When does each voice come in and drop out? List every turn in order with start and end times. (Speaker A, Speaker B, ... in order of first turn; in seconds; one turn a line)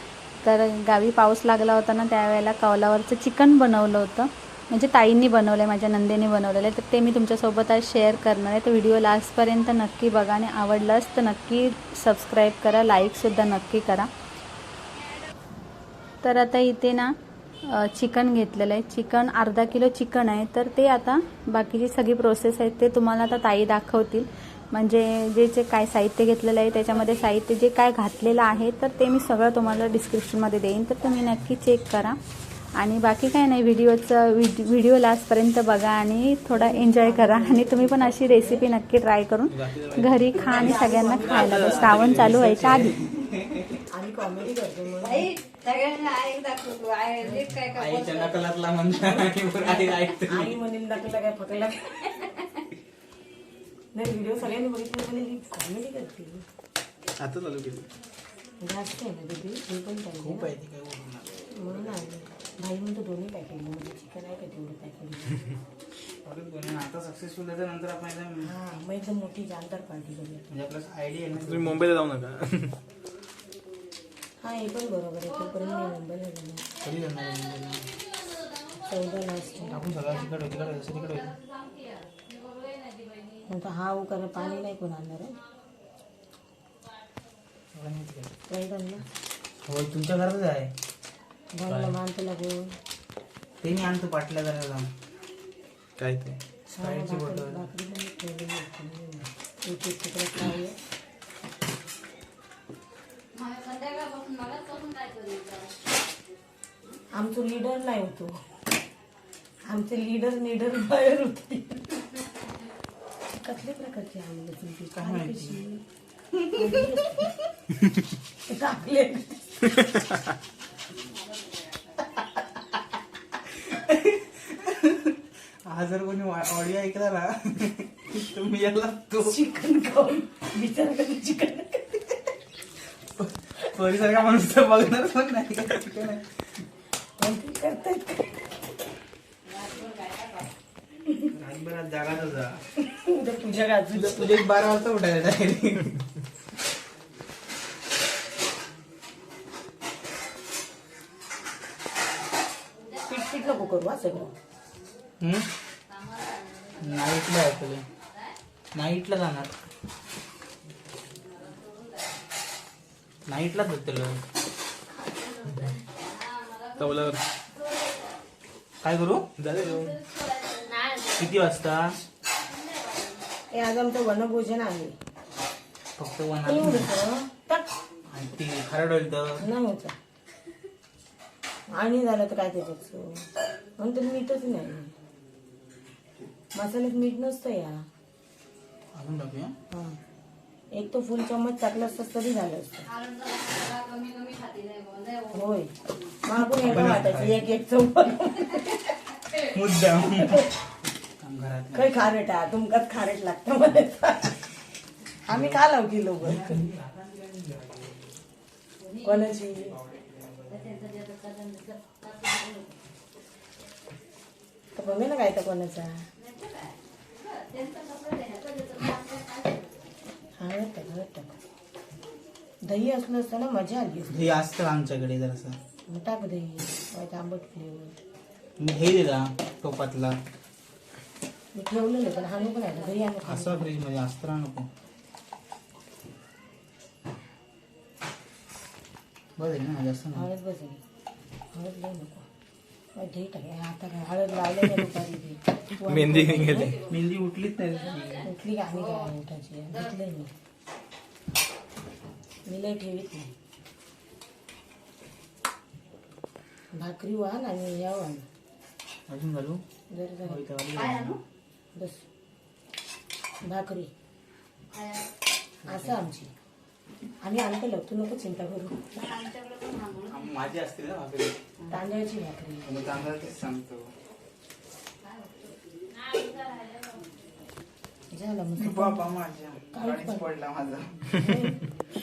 Speaker A: 0.4-14.1
Speaker A: 16.2-32.2
Speaker A: 32.7-42.9
Speaker B: 36.5-38.6
Speaker C: 39.5-43.8
Speaker B: 40.3-42.2
Speaker B: 43.9-45.3
Speaker D: 45.0-48.5
Speaker B: 47.2-47.5
Speaker C: 47.7-50.5
Speaker D: 49.6-50.1
Speaker B: 50.3-52.0
Speaker B: 53.9-56.4
Speaker C: 57.2-57.8
Speaker E: 57.3-57.8
Speaker B: 58.6-60.5
Speaker C: 60.2-62.2
Speaker B: 61.5-65.5
Speaker C: 66.2-68.5
Speaker B: 68.4-70.5
Speaker C: 70.5-71.9
Speaker E: 71.4-72.8
Speaker B: 74.4-76.7
Speaker C: 76.8-77.9
Speaker B: 78.8-79.9
Speaker D: 79.6-83.4
Speaker C: 79.7-81.3
Speaker B: 83.5-85.4
Speaker C: 87.7-88.3
Speaker B: 88.5-89.0
Speaker C: 89.6-90.7
Speaker B: 91.5-92.8
Speaker C: 91.7-92.0
Speaker C: 93.6-94.9
Speaker E: 96.0-96.3
Speaker C: 96.0-97.7
Speaker B: 96.7-100.7
Speaker D: 103.3-105.7
Speaker B: 107.1-108.3
Speaker B: 109.6-112.0
Speaker B: 113.3-115.8
Speaker C: 115.0-115.6
Speaker B: 116.5-117.3
Speaker B: 118.5-119.4
Speaker C: 123.3-129.4
Speaker B: 129.2-132.2
Speaker C: 133.0-136.6
Speaker B: 137.2-138.3
Speaker D: 139.5-140.5
Speaker C: 141.3-142.6
Speaker B: 142.8-144.4
Speaker C: 143.9-146.0
Speaker B: 153.1-154.3
Speaker C: 155.2-155.5
Speaker D: 155.9-157.2
Speaker C: 156.8-157.8
Speaker C: 158.7-159.6
Speaker D: 161.3-162.1
Speaker C: 163.2-164.2
Speaker D: 165.2-168.1
Speaker E: 166.8-167.2
Speaker C: 168.8-169.3
Speaker E: 169.4-170.0
Speaker D: 169.5-171.3
Speaker C: 171.2-172.0
Speaker D: 172.6-173.1
Speaker B: 173.5-174.9
Speaker C: 176.0-176.9
Speaker B: 176.4-177.7
Speaker C: 178.1-179.5
Speaker B: 179.4-179.9
Speaker B: 181.7-183.2
Speaker B: 183.8-184.9
Speaker B: 186.5-187.8
Speaker C: 188.9-189.5
Speaker B: 189.7-190.0
Speaker B: 190.7-192.9
Speaker D: 192.9-195.4
Speaker B: 195.3-195.7
Speaker B: 196.2-198.9
Speaker C: 196.4-197.4
Speaker C: 199.3-200.4
Speaker B: 200.0-200.5
Speaker C: 201.2-201.9
Speaker B: 201.7-204.5
Speaker B: 205.3-206.6
Speaker C: 205.3-205.6
Speaker C: 206.2-208.1
Speaker D: 208.9-209.4
Speaker B: 209.0-209.8
Speaker C: 209.8-210.7
Speaker D: 210.5-212.7
Speaker B: 214.7-215.9
Speaker D: 216.2-219.7
Speaker B: 220.4-221.4
Speaker B: 222.6-224.3
Speaker C: 224.1-225.6
Speaker B: 225.9-228.0
Speaker C: 228.6-230.2
Speaker B: 231.5-233.7
Speaker C: 233.2-234.7
Speaker C: 239.4-240.3
Speaker B: 240.1-240.8
Speaker B: 241.5-242.2
Speaker B: 242.9-246.8
Speaker E: 245.8-246.8
Speaker C: 246.7-248.3
Speaker B: 248.2-250.3
Speaker D: 248.7-249.1
Speaker B: 252.4-253.3
Speaker B: 256.7-258.2
Speaker C: 259.1-259.6
Speaker B: 259.9-260.4
Speaker C: 260.2-261.2
Speaker D: 260.7-261.2
Speaker B: 261.7-262.0
Speaker B: 263.4-263.9
Speaker D: 264.7-265.0
Speaker B: 265.6-266.3
Speaker C: 265.7-266.0
Speaker B: 267.2-268.8
Speaker D: 268.9-270.3
Speaker C: 270.1-271.4
Speaker B: 271.7-273.0
Speaker C: 272.6-273.9
Speaker D: 275.0-277.0
Speaker B: 278.1-279.1
Speaker C: 278.6-281.1
Speaker B: 279.7-280.3
Speaker B: 281.1-281.6